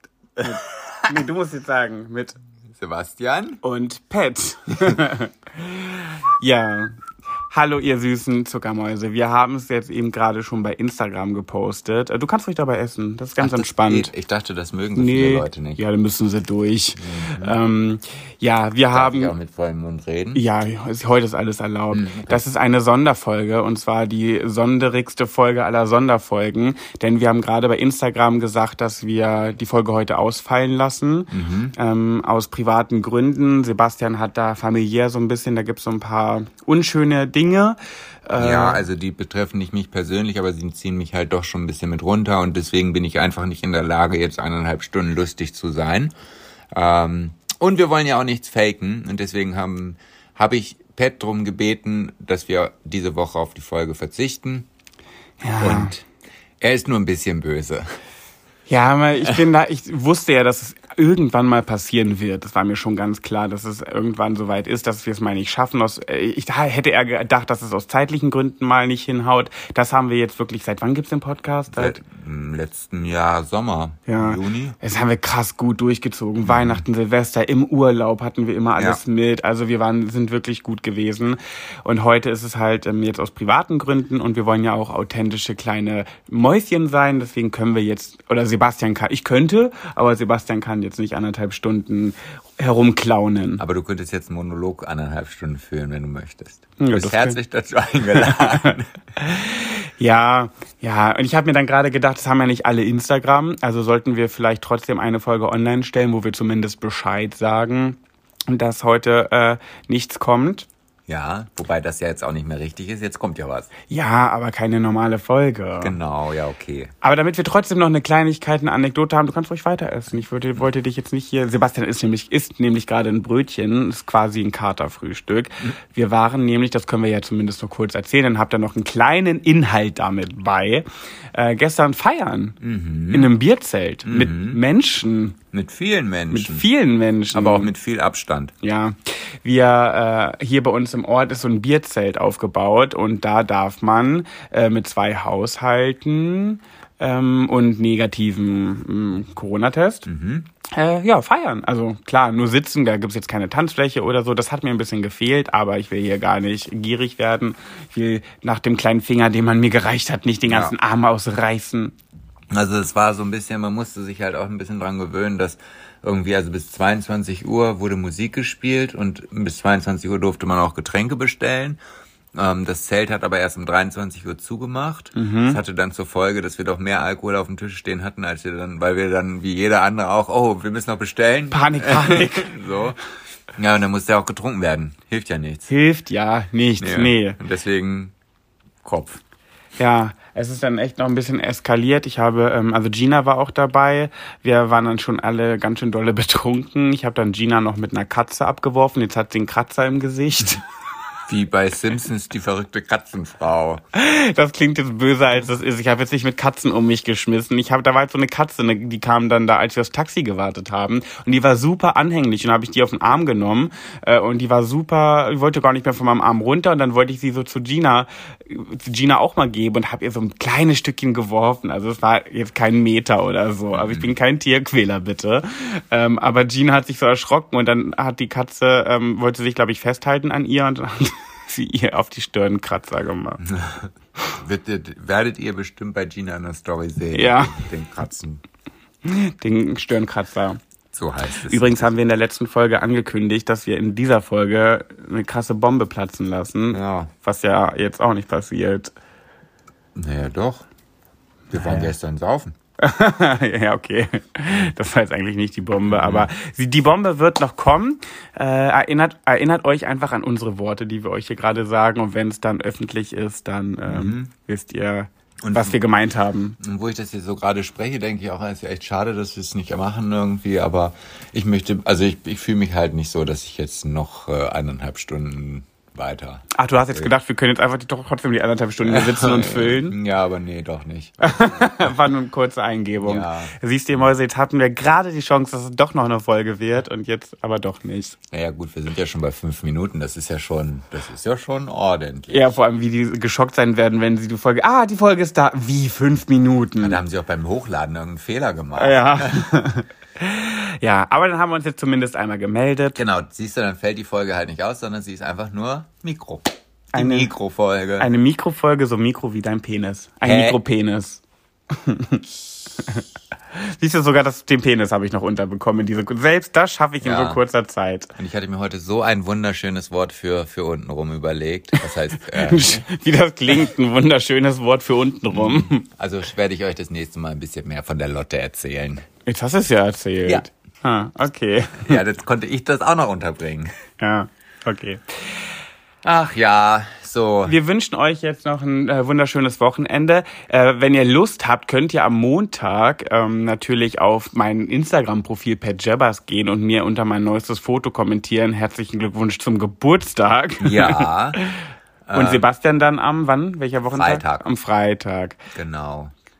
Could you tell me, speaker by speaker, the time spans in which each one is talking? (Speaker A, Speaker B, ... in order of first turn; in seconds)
Speaker A: 0.4-2.4, 3.6-6.9, 7.5-14.1, 14.9-19.3, 20.3-38.8, 55.4-55.9, 58.7-72.0, 74.1-93.6, 96.8-97.4, 98.1-110.7, 113.9-116.0, 117.0-132.6, 133.1-135.4, 136.3-137.7, 138.6-150.1, 150.7-161.9, 175.2-175.6, 181.5-182.6, 185.7-187.4, 189.8-200.6, 203.9-233.4, 237.1-237.7, 239.0-240.6, 241.5-248.9, 251.6-251.9, 252.8-266.6, 276.6-280.0, 281.2-288.2, 292.3-297.0, 298.8-303.0, 306.9-307.3, 308.0-312.2, 313.6-318.1, 321.8-325.9, 329.2-332.0, 334.0-335.0, 337.4-351.6, 352.1-355.4
Speaker B: 0.8-1.1, 2.7-3.6, 13.4-15.8, 17.0-17.6, 18.9-20.4, 21.9-22.4, 31.3-31.7, 38.4-46.1, 46.7-54.7, 55.6-56.0, 56.6-57.9, 71.7-74.8, 76.4-76.8, 93.6-98.9, 111.1-113.7, 115.8-116.9, 132.6-133.3, 134.1-134.6, 135.5-136.7, 137.3-138.5, 150.0-150.5, 160.4-160.8, 162.5-171.8, 172.3-183.0, 183.6-185.7, 186.8-188.1, 188.8-189.2, 201.3-203.8, 223.7-224.1, 233.4-238.4, 240.9-241.9, 246.7-247.1, 249.9-250.7, 251.5-252.6, 255.9-256.3, 263.8-264.3, 265.4-265.8, 266.6-277.1, 278.8-281.8, 283.0-283.5, 288.3-292.5, 296.8-299.3, 302.9-308.1, 310.2-310.6, 317.0-317.4, 318.1-322.8, 325.3-329.1, 331.8-333.7, 336.0-337.6, 350.6-351.4, 352.1-352.4, 353.9-354.4, 355.5-356.1